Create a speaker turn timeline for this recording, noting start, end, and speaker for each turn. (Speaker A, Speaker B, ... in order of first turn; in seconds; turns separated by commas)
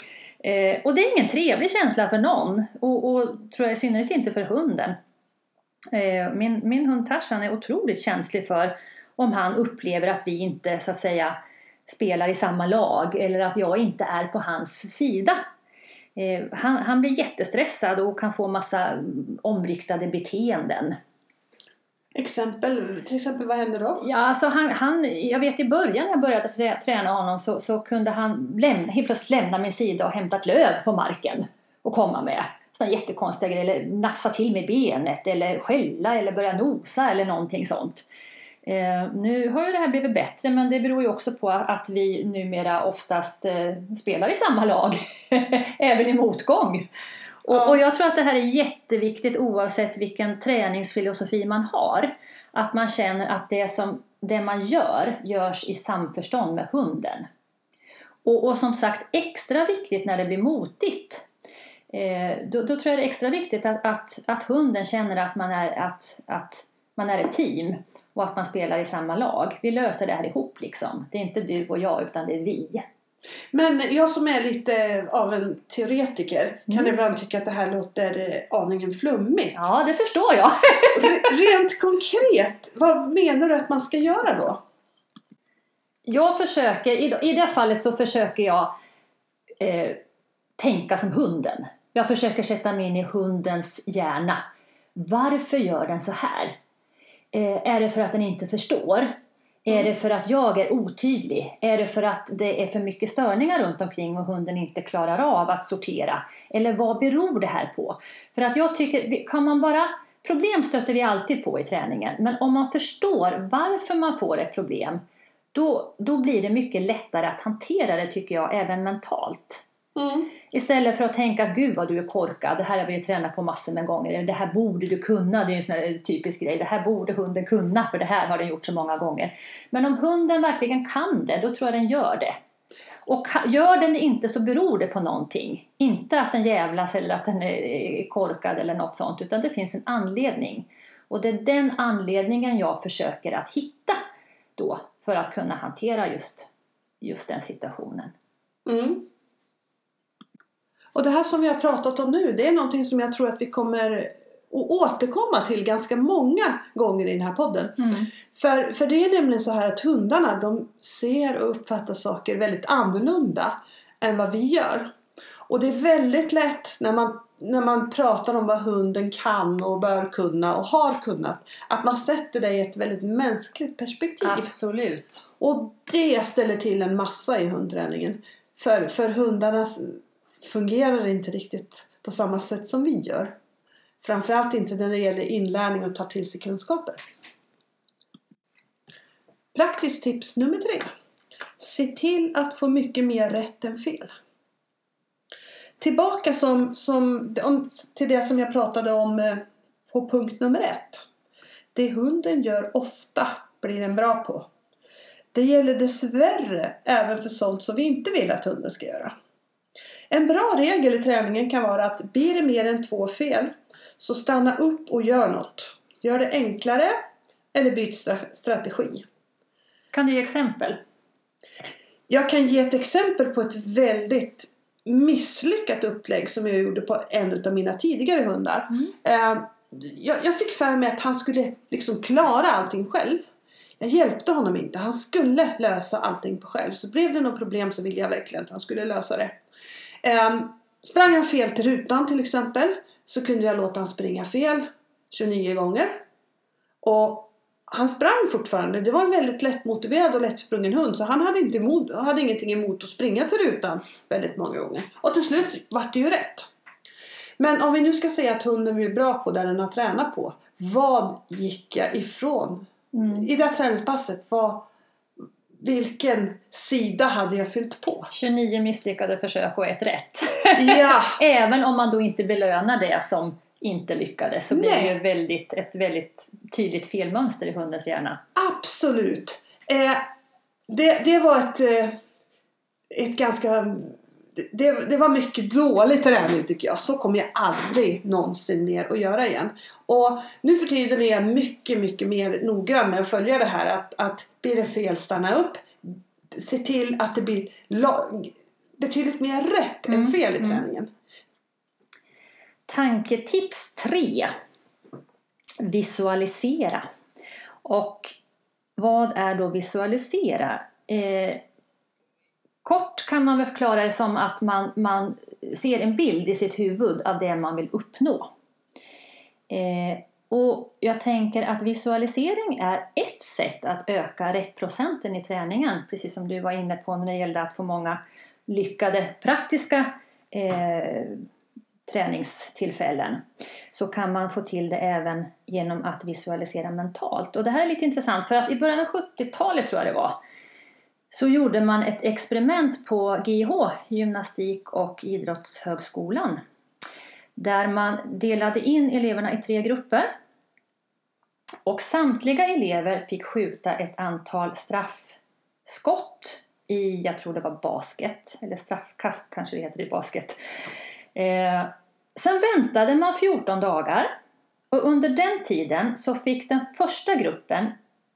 Speaker A: 0.4-5.0, Speaker A: 5.9-11.3, Speaker A: 11.9-15.4, Speaker A: 16.1-21.0, Speaker B: 22.1-24.0, Speaker A: 24.0-38.0, Speaker A: 38.6-46.9, Speaker A: 47.4-57.3, Speaker B: 47.5-47.8, Speaker A: 58.2-61.3, Speaker A: 61.9-72.8, Speaker B: 73.5-79.6, Speaker A: 76.7-77.0, Speaker A: 79.5-81.3, Speaker B: 80.9-84.6, Speaker A: 86.1-88.7, Speaker A: 89.6-90.0, Speaker A: 90.6-94.4, Speaker A: 95.0-96.6, Speaker A: 97.3-115.0, Speaker A: 115.5-119.6, Speaker B: 120.0-120.3, Speaker A: 120.5-132.3, Speaker A: 133.1-144.0, Speaker A: 144.6-146.5, Speaker A: 147.0-148.1, Speaker B: 148.7-149.1, Speaker B: 150.9-164.9, Speaker A: 157.8-158.1, Speaker B: 165.5-174.5, Speaker A: 174.2-175.2, Speaker B: 175.4-183.3, Speaker B: 184.0-187.0, Speaker B: 189.5-190.9, Speaker B: 191.6-194.1, Speaker B: 195.8-201.1, Speaker B: 201.7-204.5, Speaker B: 205.3-209.1, Speaker B: 210.1-217.0, Speaker B: 217.5-219.1, Speaker A: 219.9-220.8, Speaker B: 222.1-239.4, Speaker B: 240.0-246.0, Speaker B: 246.8-256.5, Speaker B: 257.4-264.6, Speaker A: 262.9-263.3, Speaker B: 265.5-268.1, Speaker A: 268.1-278.2, Speaker B: 270.5-271.2, Speaker B: 274.5-274.9, Speaker B: 278.4-280.1, Speaker B: 280.7-282.0, Speaker B: 282.9-300.9, Speaker A: 299.9-300.6, Speaker A: 302.7-304.3, Speaker A: 305.6-306.9, Speaker A: 307.6-308.1, Speaker A: 308.8-311.4, Speaker A: 312.6-318.3, Speaker A: 319.5-331.2, Speaker A: 331.9-340.2, Speaker A: 341.1-346.4, Speaker A: 347.4-350.1, Speaker A: 351.6-360.4, Speaker A: 361.1-364.1, Speaker A: 364.7-367.7